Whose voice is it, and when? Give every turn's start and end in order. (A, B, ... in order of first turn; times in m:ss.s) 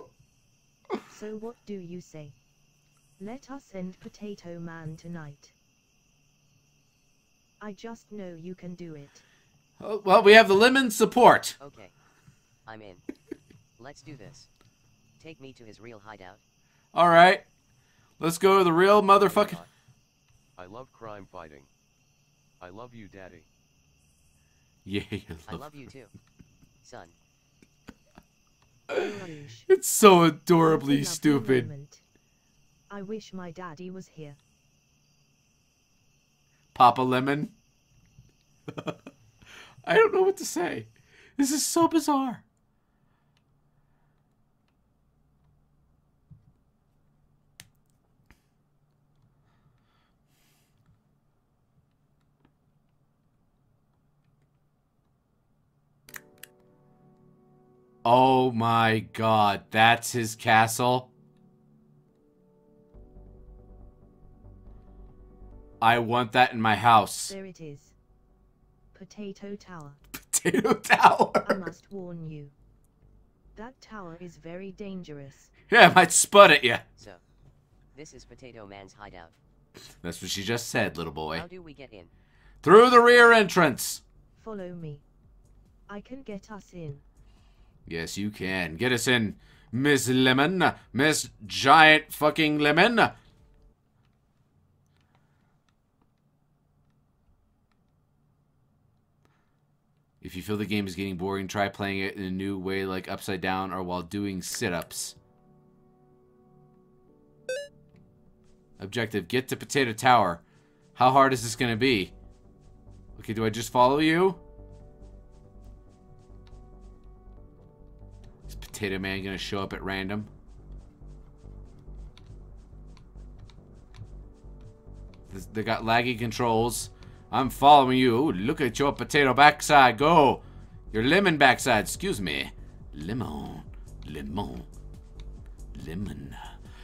0:01.1-0:02.4 A
0:03.2-0:05.5 A
0:07.6-0:09.2 A
0:09.8-0:11.6 B
0:11.6-0:11.9 C
0:12.7-0:13.0 C
0:13.8-0:14.5 C
0:15.2-0:16.4 C
0:16.9-0:17.4 B
0:18.2-0:19.6 B
0:19.2-0:19.7 D
0:20.6-0:21.7 D
0:22.6-0:23.5 D
0:24.8-0:25.7 B
0:25.5-0:26.1 C
0:26.8-0:27.2 C
0:28.9-0:29.7 A
0:29.7-0:31.7 B
0:30.6-0:32.0 A
0:32.9-0:34.4 A
0:36.7-0:37.5 B
0:39.8-0:42.4 B
0:58.0-1:01.1 B
1:05.8-1:07.4 B
1:07.3-1:08.0 A
1:08.9-1:10.0 A
1:10.2-1:11.7 B
1:11.4-1:12.6 A
1:13.6-1:15.5 A
1:15.7-1:16.8 B
1:17.9-1:19.4 C
1:20.0-1:21.5 B
1:21.3-1:22.1 C
1:22.6-1:24.0 B
1:24.4-1:25.0 A
1:25.9-1:27.0 A
1:27.9-1:33.2 B
1:40.2-1:45.2 B
1:48.8-1:50.4 B
1:51.0-1:52.1 B
1:53.2-1:54.4 B
1:58.5-2:00.3 B
2:05.3-2:14.7 B
2:15.7-2:16.5 B